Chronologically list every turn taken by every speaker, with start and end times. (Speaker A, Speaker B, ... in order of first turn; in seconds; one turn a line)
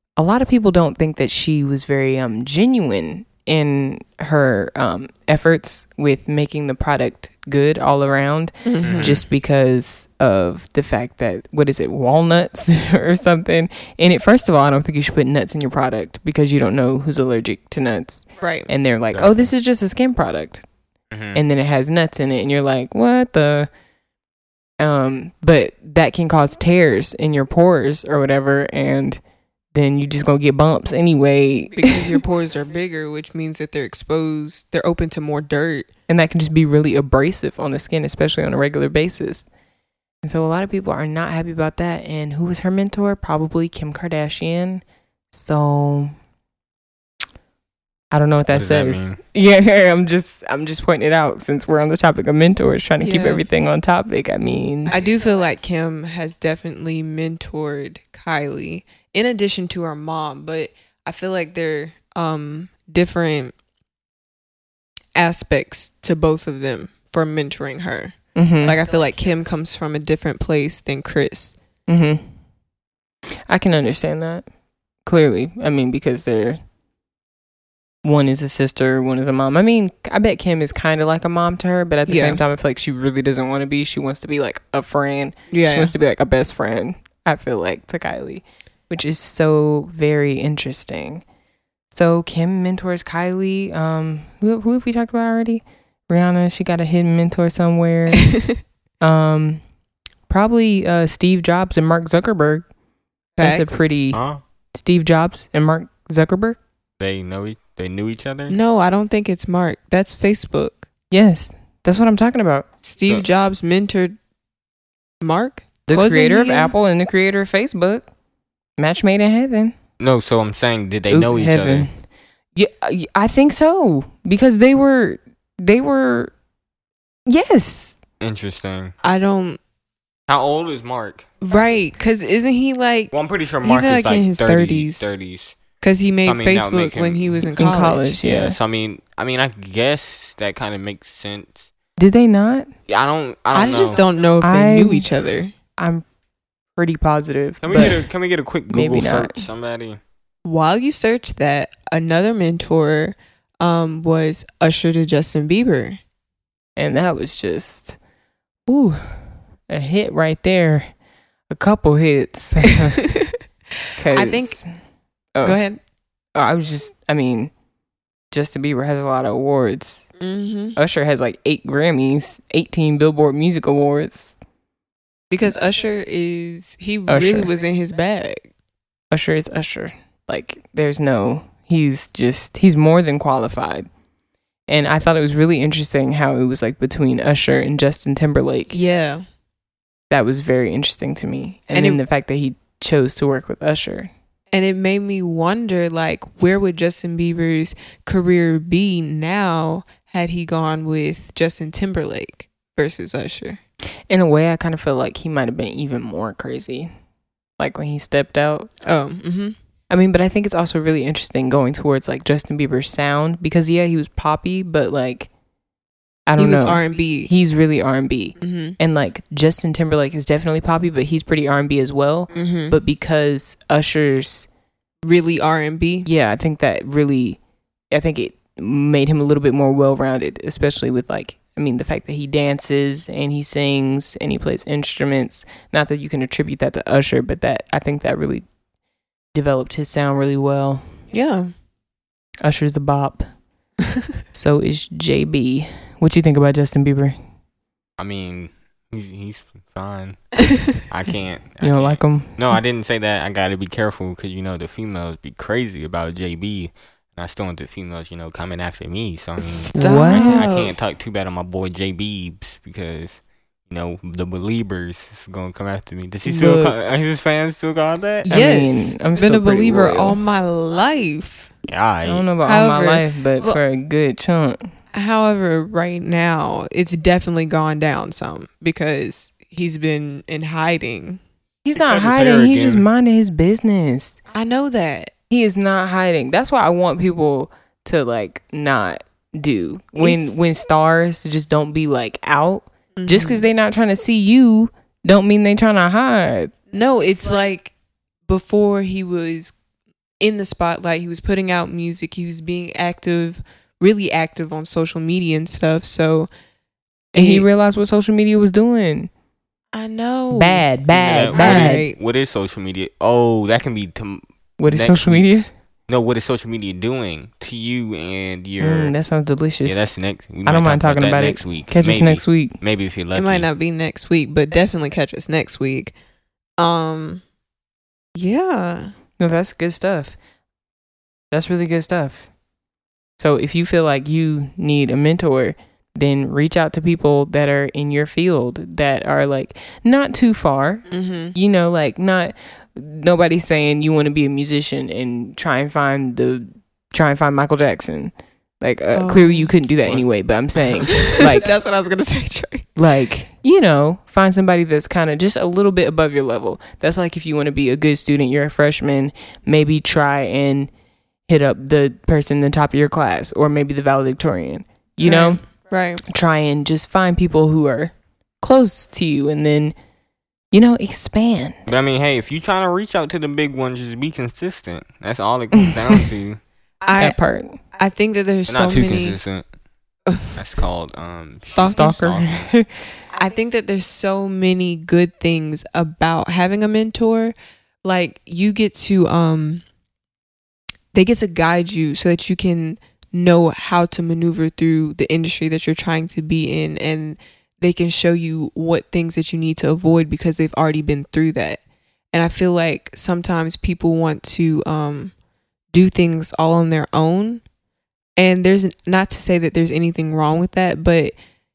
Speaker A: 0.2-20.6
Speaker B: 8.7-9.2
Speaker C: 8.8-9.2
Speaker B: 18.4-18.7
Speaker C: 19.1-19.5
Speaker C: 21.1-21.4
Speaker A: 21.3-23.7
Speaker A: 24.8-29.2
Speaker A: 29.7-32.1
Speaker B: 31.8-35.9
Speaker A: 36.1-39.5
Speaker A: 40.2-46.1
Speaker A: 48.1-54.9
Speaker C: 48.5-49.2
Speaker B: 53.0-53.4
Speaker B: 54.9-63.5
Speaker B: 65.2-71.5
Speaker A: 68.4-68.8
Speaker A: 71.9-72.2
Speaker A: 73.5-74.5
Speaker A: 75.0-76.6
Speaker A: 78.0-91.2
Speaker B: 82.1-82.4
Speaker B: 85.5-85.9
Speaker A: 91.9-98.3
Speaker B: 98.2-98.5
Speaker A: 99.0-99.6
Speaker A: 100.3-102.7
Speaker B: 103.4-103.8
Speaker A: 103.4-104.2
Speaker C: 104.1-104.4
Speaker A: 104.7-106.6
Speaker C: 107.0-108.6
Speaker B: 108.5-110.9
Speaker A: 111.1-112.7
Speaker B: 112.8-114.2
Speaker B: 115.2-116.7
Speaker A: 115.9-118.0
Speaker A: 118.8-119.8
Speaker C: 120.0-121.9
Speaker A: 121.1-122.0
Speaker A: 122.5-126.3
Speaker A: 127.3-128.0
Speaker C: 128.2-128.9
Speaker B: 129.0-129.6
Speaker C: 130.3-131.3
Speaker B: 131.4-135.1
Speaker C: 133.1-135.6
Speaker B: 135.8-138.2
Speaker C: 136.2-137.4
Speaker A: 137.6-138.6
Speaker C: 138.1-141.6
Speaker A: 142.0-142.7
Speaker C: 142.9-144.0
Speaker B: 143.5-145.5
Speaker A: 144.4-145.1
Speaker A: 145.8-146.0
Speaker A: 146.8-148.0
Speaker C: 147.6-150.0
Speaker A: 148.7-149.4
Speaker B: 150.4-156.0
Speaker A: 156.8-158.0
Speaker A: 158.7-160.9
Speaker A: 161.5-163.0
Speaker B: 163.0-163.3
Speaker A: 164.0-164.7
Speaker B: 164.1-164.6
Speaker B: 165.4-165.8
Speaker A: 166.3-167.5
Speaker A: 168.3-170.1
Speaker B: 170.2-170.8
Speaker A: 170.8-174.3
Speaker B: 175.3-178.5
Speaker A: 177.1-177.5
Speaker A: 179.1-183.9
Speaker A: 184.7-188.8
Speaker B: 188.7-189.2
Speaker A: 190.1-194.1
Speaker B: 191.7-192.0
Speaker B: 194.5-203.6
Speaker A: 204.1-206.9
Speaker A: 207.6-208.7
Speaker B: 208.8-209.6
Speaker A: 209.9-215.3
Speaker A: 216.3-224.5
Speaker B: 216.4-217.3
Speaker B: 218.4-218.8
Speaker B: 222.3-222.8
Speaker B: 225.0-226.1
Speaker A: 226.1-227.4
Speaker A: 227.9-238.5
Speaker A: 239.3-240.9
Speaker B: 241.1-241.5
Speaker A: 242.4-243.3
Speaker A: 244.3-247.2
Speaker C: 248.0-268.4
Speaker A: 251.6-252.6
Speaker B: 259.4-260.8
Speaker A: 259.7-260.6
Speaker B: 266.3-266.7
Speaker B: 268.3-271.5
Speaker A: 268.3-270.2
Speaker C: 271.7-272.2
Speaker A: 272.1-274.7
Speaker B: 272.4-273.6
Speaker B: 274.9-281.2
Speaker A: 281.6-284.2
Speaker C: 281.8-282.9
Speaker B: 284.3-285.1
Speaker A: 285.3-296.5
Speaker B: 290.0-290.4
Speaker B: 293.0-293.4
Speaker B: 296.7-297.7
Speaker B: 298.3-299.5
Speaker B: 300.2-306.3
Speaker B: 307.1-307.5
Speaker A: 307.1-309.1
Speaker B: 309.7-310.7
Speaker A: 310.3-311.9
Speaker C: 310.9-318.9
Speaker B: 311.3-312.0
Speaker A: 314.6-315.5
Speaker A: 318.6-319.9
Speaker C: 319.6-323.5
Speaker A: 320.4-322.6
Speaker B: 323.1-325.9
Speaker B: 326.6-327.2
Speaker B: 328.2-328.9
Speaker A: 329.2-330.2
Speaker A: 331.3-332.3
Speaker A: 333.2-351.5
Speaker B: 340.9-341.4
Speaker B: 348.9-349.5
Speaker C: 350.6-350.9
Speaker B: 350.9-352.7
Speaker A: 352.8-360.7
Speaker A: 361.3-365.4
Speaker B: 365.0-366.0
Speaker A: 366.1-369.8
Speaker A: 370.5-371.7
Speaker C: 371.7-376.4
Speaker B: 376.9-377.2
Speaker A: 377.0-377.6
Speaker B: 377.8-379.2
Speaker C: 378.5-379.5
Speaker C: 380.3-382.5
Speaker B: 381.5-382.0
Speaker A: 381.6-382.7
Speaker B: 383.1-389.6
Speaker B: 390.9-401.6
Speaker B: 402.1-405.1
Speaker B: 405.7-407.4
Speaker B: 408.2-411.1